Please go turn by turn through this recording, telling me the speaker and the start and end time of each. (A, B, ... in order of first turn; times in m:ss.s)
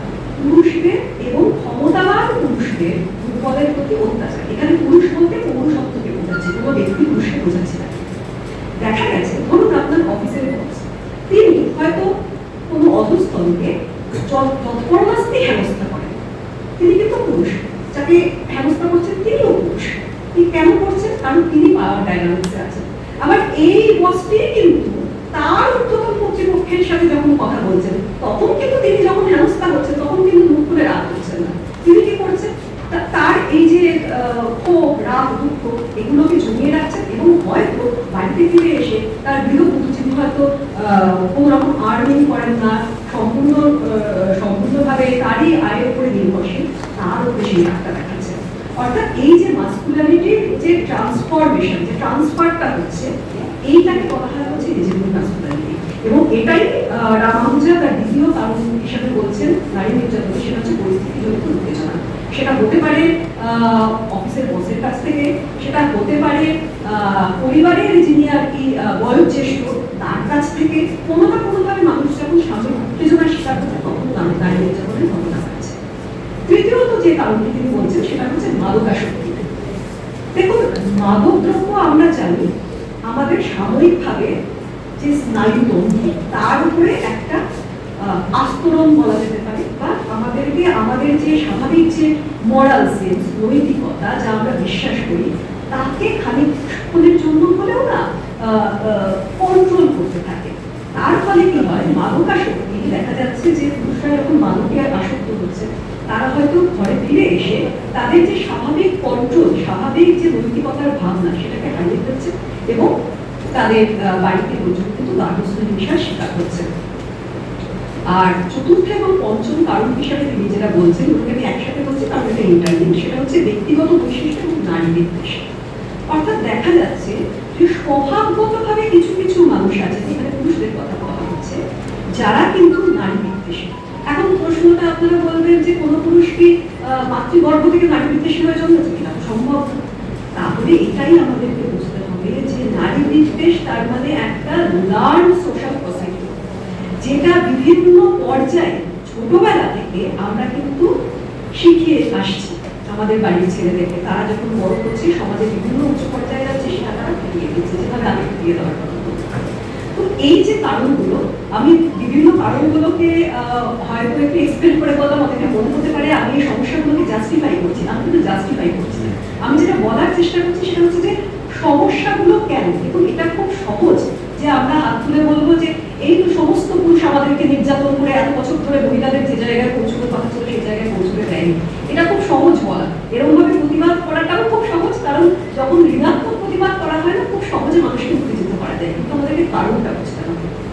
0:00.4-0:08.0 A
0:08.8-0:12.1 A
0:12.7-0:16.2 A
0:16.8-0:53.1 A
0:53.6-1:15.8 A
1:16.4-1:19.5 A
1:20.3-1:22.5 A
1:23.1-1:24.3 A
1:25.0-1:27.4 A
1:28.0-1:52.9 A
1:53.5-1:56.6 A
1:58.1-2:05.5 A
2:06.1-2:11.6 A
2:12.2-2:19.6 A
2:20.4-2:26.3 A
2:27.0-2:30.9 A
2:31.6-2:39.4 A
2:39.9-3:10.6 A